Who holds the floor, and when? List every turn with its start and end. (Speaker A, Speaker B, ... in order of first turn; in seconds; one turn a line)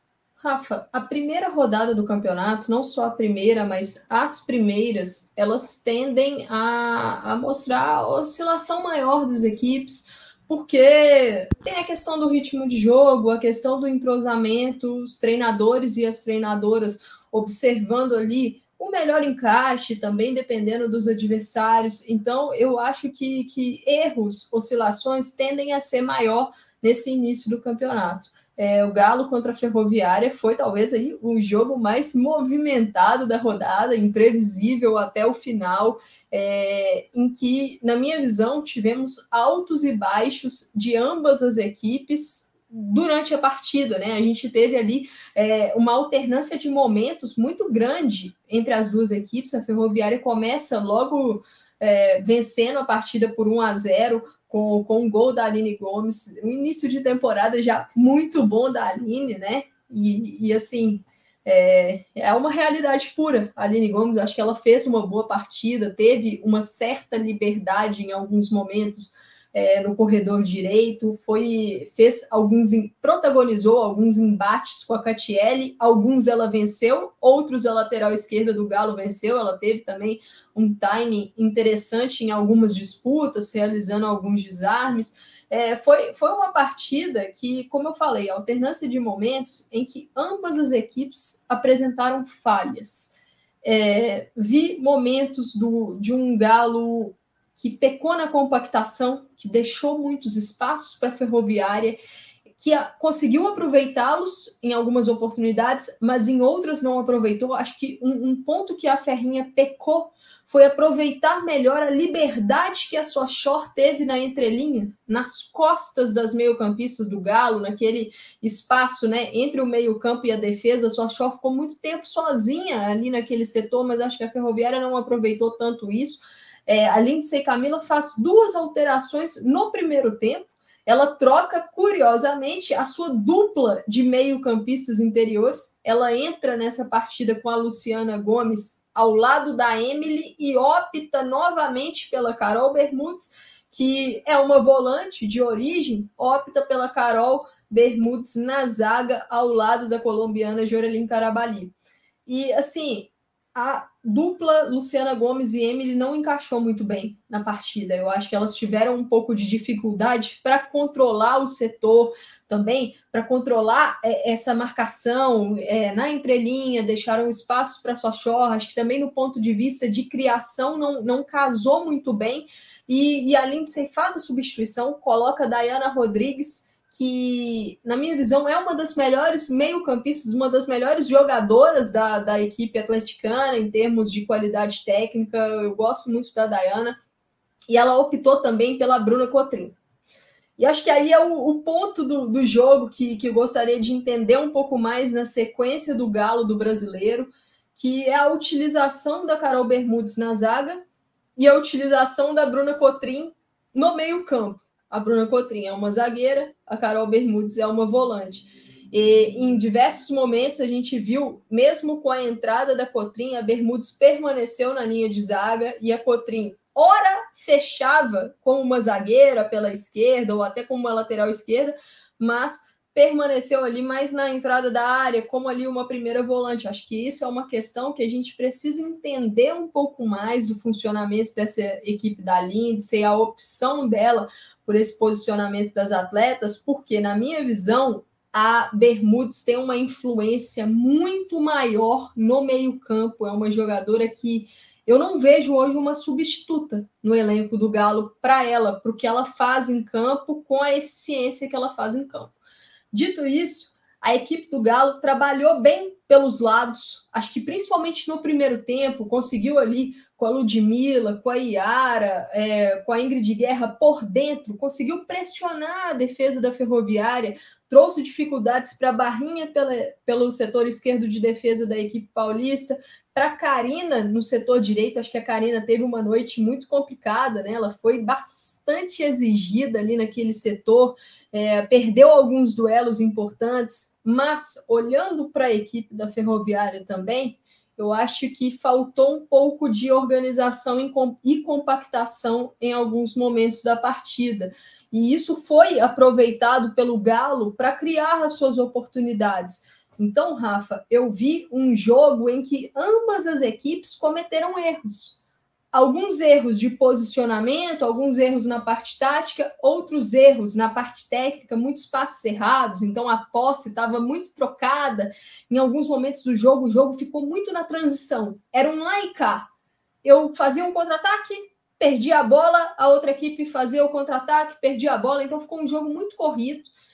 Speaker A: 0.4-102.0
Speaker A: 102.6-151.7
Speaker A: 152.2-187.0
Speaker A: 187.7-189.8
Speaker A: 190.6-200.8
Speaker A: 201.3-252.3
Speaker A: 252.9-305.2
Speaker A: 305.7-319.5
Speaker A: 320.0-326.7